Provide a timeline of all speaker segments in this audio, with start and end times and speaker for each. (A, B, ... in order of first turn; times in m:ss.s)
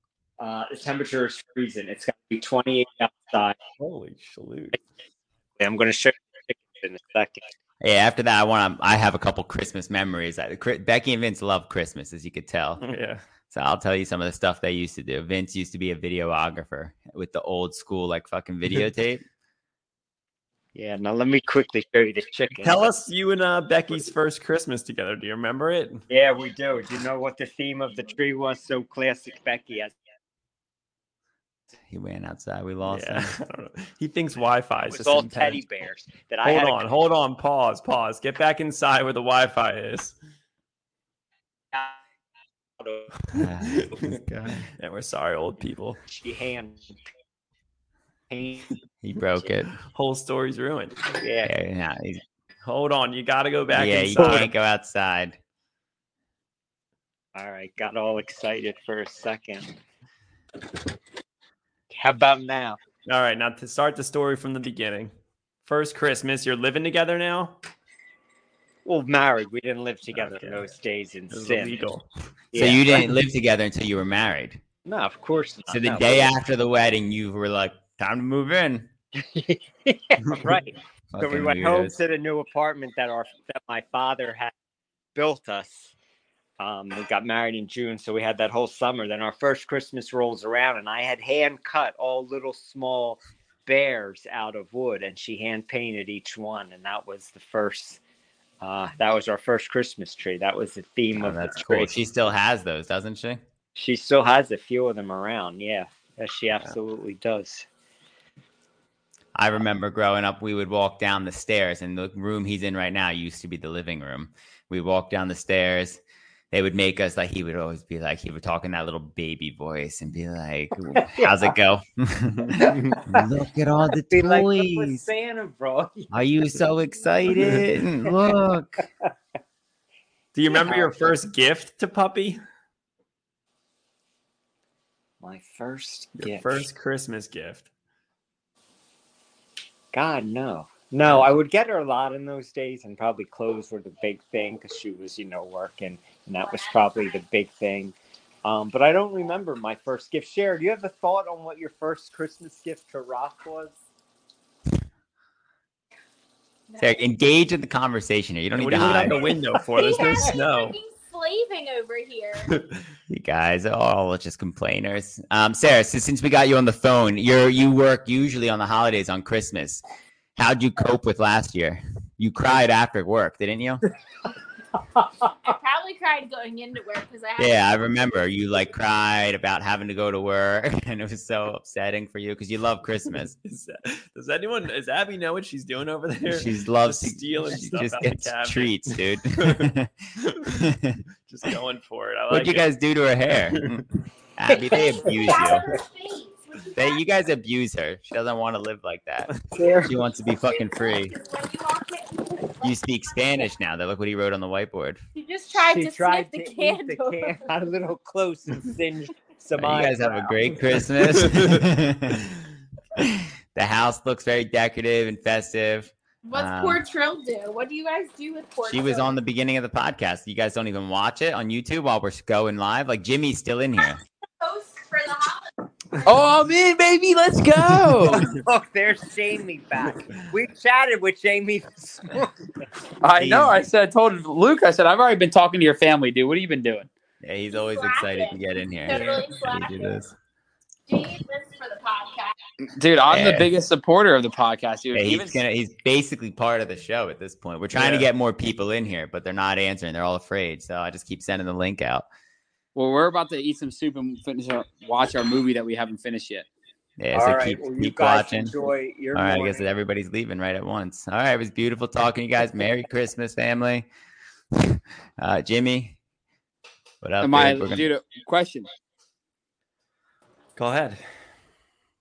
0:00.4-0:03.6 A
0:03.8-0:04.8 B
0:05.6-0:07.4 A
0:07.8-0:12.8 C
0:12.8-0:13.2 B
0:13.5-0:19.2 C
0:20.7-0:22.9 A
0:22.6-0:26.0 B
0:26.1-0:29.9 A
0:31.9-0:33.4 C
0:32.8-0:35.6 B
0:34.8-0:36.8 A
0:36.4-0:40.1 B
0:42.8-0:43.1 A
0:43.3-0:44.7 C
0:43.6-0:44.0 B
0:44.7-0:46.0 B
0:46.0-0:47.0 A
0:48.3-0:48.7 A
0:49.0-0:49.7 C
0:49.8-0:51.0 B
0:51.2-0:51.5 A
0:51.4-0:52.2 C
0:52.6-0:54.5 B
0:53.7-0:55.4 C
0:57.3-0:59.7 A
1:01.9-1:02.8 A
1:03.0-1:05.1 B
1:05.6-1:07.6 B
1:08.8-1:11.9 A
1:10.1-1:10.7 B
1:11.3-1:12.0 B
1:12.5-1:13.1 A
1:12.6-1:14.6 C
1:14.8-1:16.3 A
1:15.7-1:18.9 C
1:19.1-1:24.5 A
1:21.1-1:22.0 C
1:25.1-1:25.9 A
1:26.6-1:38.0 A
1:38.6-1:42.1 A
1:41.2-1:43.4 C
1:43.8-1:47.6 A
1:49.3-1:56.0 C
1:56.5-2:05.0 C
2:00.9-2:01.5 A
2:02.6-2:03.2 A
2:04.1-2:06.1 A
2:06.1-2:08.8 C
2:10.3-2:12.4 B
2:10.5-2:11.2 A
2:15.2-2:16.6 A
2:16.1-2:17.7 B
2:19.9-2:33.8 A
2:26.4-2:27.2 D
2:36.7-2:37.0 D
2:36.8-2:39.2 C
2:38.6-2:40.8 B
2:39.7-2:42.5 D
2:42.4-2:42.8 B
2:43.1-2:49.8 C
2:50.4-2:53.8 C
2:55.4-2:57.7 D
2:57.4-3:03.3 C
3:03.2-3:10.6 B
3:06.3-3:09.9 C
3:10.4-3:11.0 C
3:11.2-3:12.7 B
3:12.3-3:15.7 C
3:14.5-3:17.1 D
3:16.8-3:21.2 C
3:19.5-3:19.9 A
3:20.4-3:22.8 D
3:22.6-3:25.0 C
3:25.1-3:27.5 D
3:25.5-3:30.4 A
3:29.6-3:32.3 C
3:31.0-3:31.6 B
3:33.0-3:36.8 C
3:36.2-3:39.1 D
3:38.6-3:44.0 C
3:44.4-3:45.5 D
3:46.0-3:48.3 E
3:48.1-3:52.4 A
3:53.0-3:56.9 E
3:53.2-3:53.7 C
3:57.2-4:00.1 C
3:57.5-4:00.0 D
3:58.9-3:59.2 B
4:00.9-4:02.4 D
4:02.7-4:05.4 E
4:03.1-4:03.5 C
4:04.9-4:12.0 C
4:07.7-4:08.1 B
4:12.7-4:16.5 E
4:17.0-4:18.5 C
4:17.1-4:19.6 A
4:19.1-4:23.9 C
4:24.5-4:26.0 C
4:27.0-4:27.8 C
4:27.2-4:28.7 E
4:30.6-4:31.0 B